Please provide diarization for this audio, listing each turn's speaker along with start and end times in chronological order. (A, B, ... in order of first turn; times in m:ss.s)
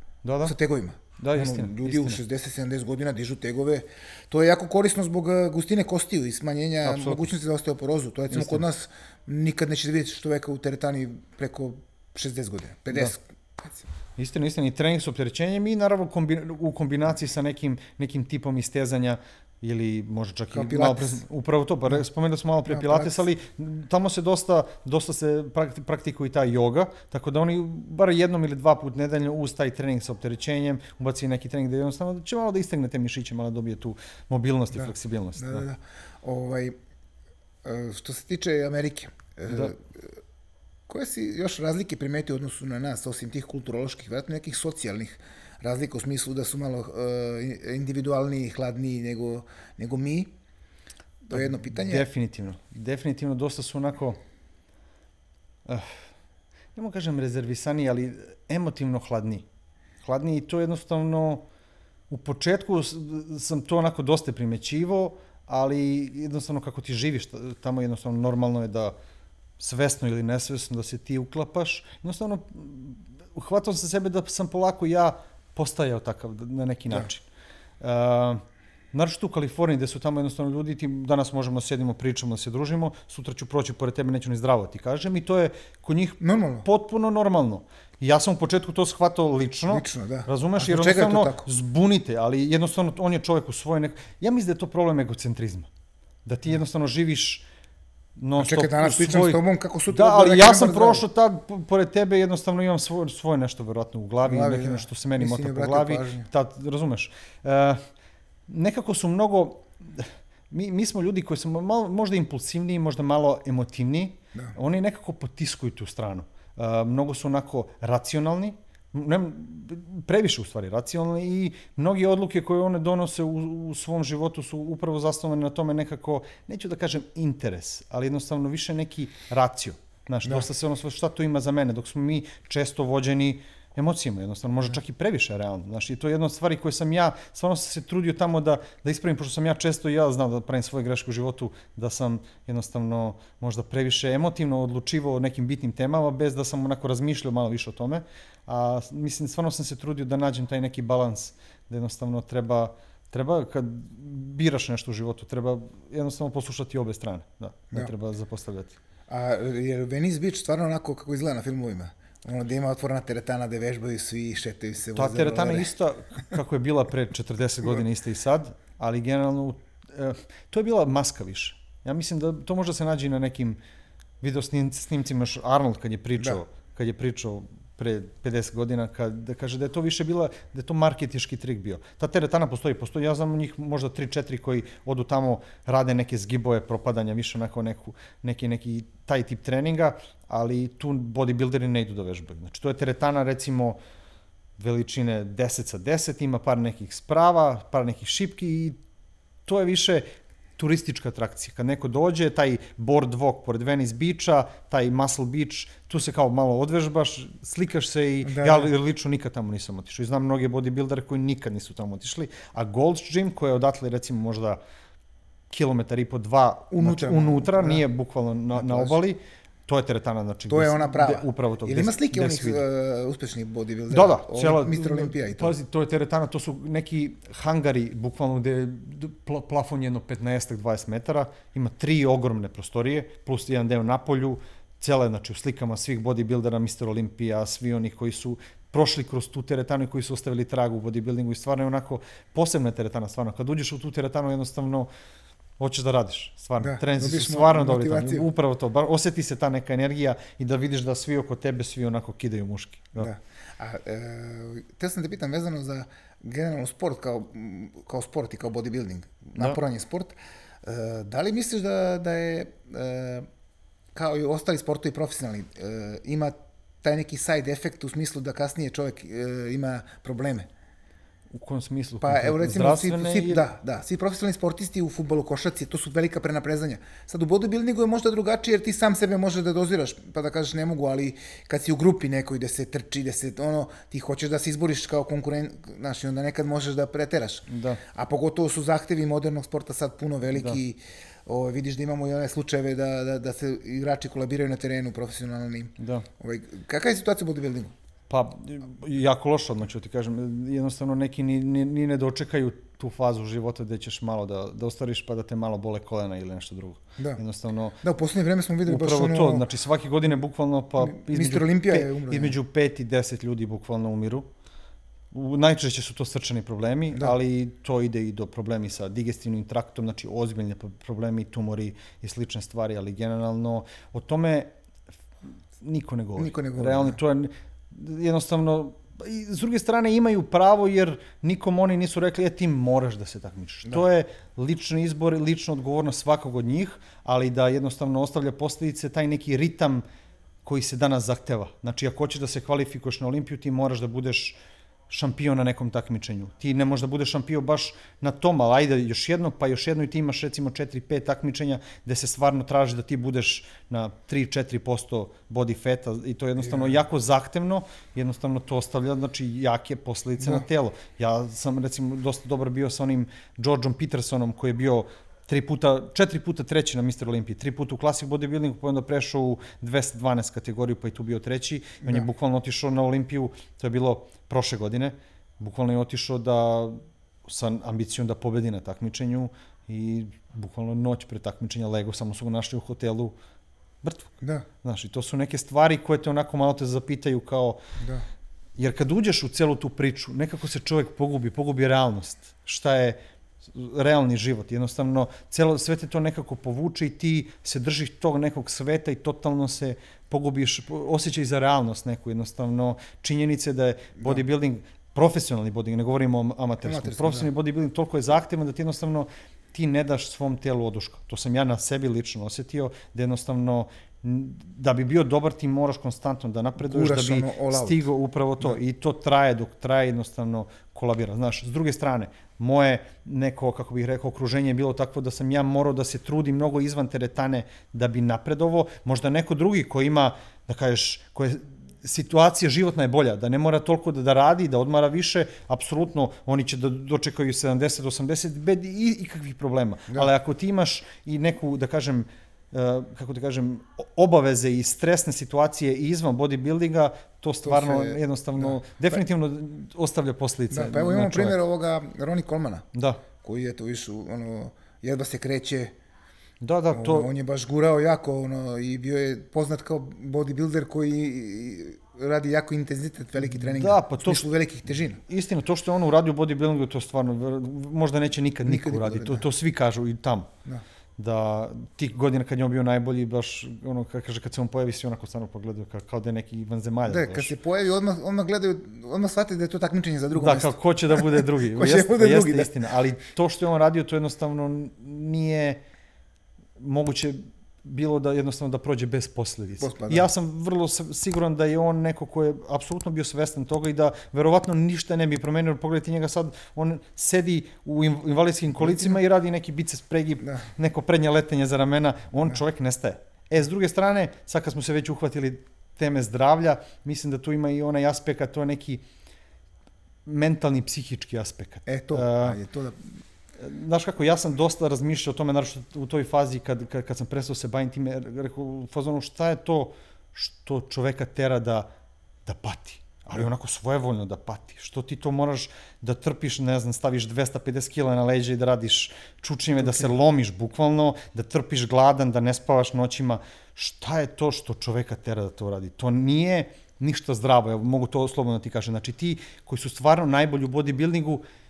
0:00.2-0:00.5 A
0:00.4-0:13.8 B
0:01.2-0:02.2 A
0:06.8-0:07.3 A
0:08.3-0:08.6 A
0:14.2-0:35.6 A
0:20.5-0:21.2 B
0:22.7-0:23.2 B
0:34.7-0:36.7 B
0:37.6-0:40.0 B
0:39.5-0:39.7 A
0:40.9-0:50.3 B
0:51.3-0:52.1 B
0:51.3-0:54.2 A
0:55.6-0:56.0 A
0:56.7-0:59.4 A
1:00.0-1:01.4 A
1:02.1-1:08.9 A
1:09.6-1:17.2 A
1:17.8-1:18.4 A
1:18.9-1:35.7 A
1:26.2-1:26.7 B
1:29.7-1:31.5 B
1:36.2-1:37.4 A
1:38.2-1:47.8 A
1:38.4-1:41.0 B
1:44.2-1:46.3 B
1:48.5-2:38.8 A
2:39.1-2:45.7 B
2:45.0-2:53.6 A
2:54.2-3:13.8 A
3:14.6-3:18.8 A
3:19.4-3:20.0 A
3:20.6-3:34.6 A
3:28.2-3:28.7 B
3:35.5-3:42.6 A
3:36.7-3:37.8 B
3:38.5-3:39.0 B
3:40.5-3:45.5 B
3:43.9-4:04.9 A
4:05.6-4:13.1 A
4:06.6-4:08.3 B
4:13.0-4:23.3 B
4:23.9-4:30.5 B
4:31.3-4:33.4 A
4:32.0-4:57.7 B
4:47.5-4:47.8 A
4:55.8-4:56.0 A
4:58.1-5:07.8 A
5:07.8-5:09.5 B
5:08.6-5:14.3 A
5:10.8-5:12.3 B
5:15.1-5:24.5 A
5:25.6-5:39.8 A
5:26.2-5:27.0 B
5:40.4-5:44.4 A
5:44.9-6:23.1 A
5:56.4-5:56.7 B
6:00.2-6:00.4 B
6:11.8-6:12.1 B
6:23.8-6:27.6 A
6:24.2-6:24.4 B
6:27.8-6:28.0 B
6:28.6-7:31.4 A
6:46.6-6:47.3 B
6:56.6-6:57.8 B
7:27.4-7:28.6 B
7:30.5-7:32.6 B
7:32.7-7:33.0 A
7:33.2-7:35.7 B
7:36.4-7:37.1 A
7:36.7-7:45.0 B
7:43.2-7:44.3 A
7:45.0-7:50.3 A
7:48.4-7:49.2 B
7:51.0-7:57.3 A
7:56.9-8:02.6 B
8:00.1-8:05.6 A
8:06.6-8:28.8 A
8:09.6-8:10.1 B
8:30.0-8:32.4 A
8:31.6-8:32.8 B
8:33.4-8:41.7 A
8:42.2-9:01.2 A
8:49.6-8:49.9 B